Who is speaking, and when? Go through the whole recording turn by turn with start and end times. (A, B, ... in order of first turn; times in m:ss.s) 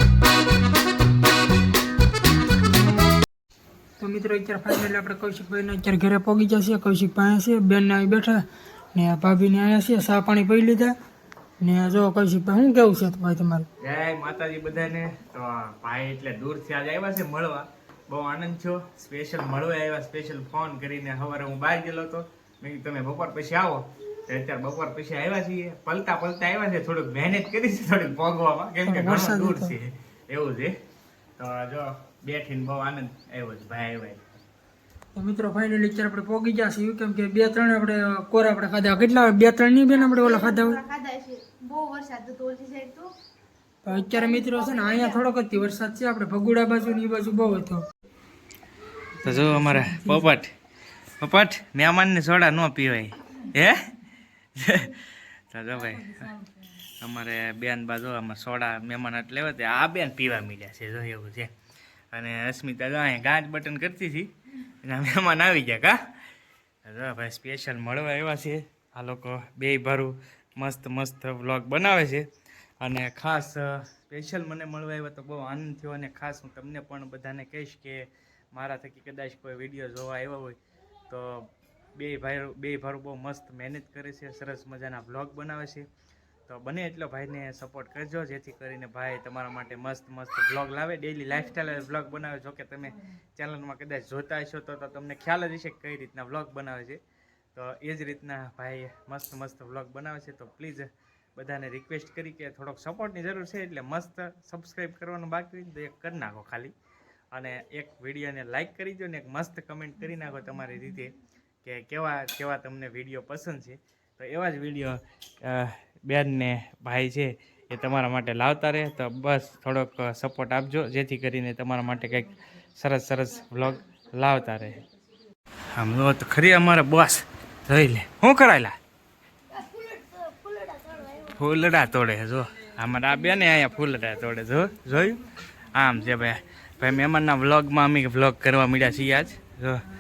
0:04.0-0:10.9 A
0:11.6-0:13.7 A
0:13.8-0:30.7 B
0:28.8-0:29.7 A
0:31.4-0:34.2 B
0:35.1-0:40.8 A
0:39.9-0:43.1 C
0:43.8-0:47.8 A
0:43.9-0:45.2 C
0:49.2-0:50.3 A
0:49.2-0:50.5 B
0:51.2-0:53.9 B
0:54.6-0:56.4 B
0:57.0-1:01.5 B
1:02.1-1:06.0 B
1:06.8-1:12.3 B
1:12.8-1:20.6 B
1:21.1-1:25.8 B
1:26.5-1:37.0 B
1:37.5-1:46.7 B
1:47.3-2:04.8 B
2:05.7-2:08.8 B
2:09.6-2:11.2 C
2:11.2-2:19.8 B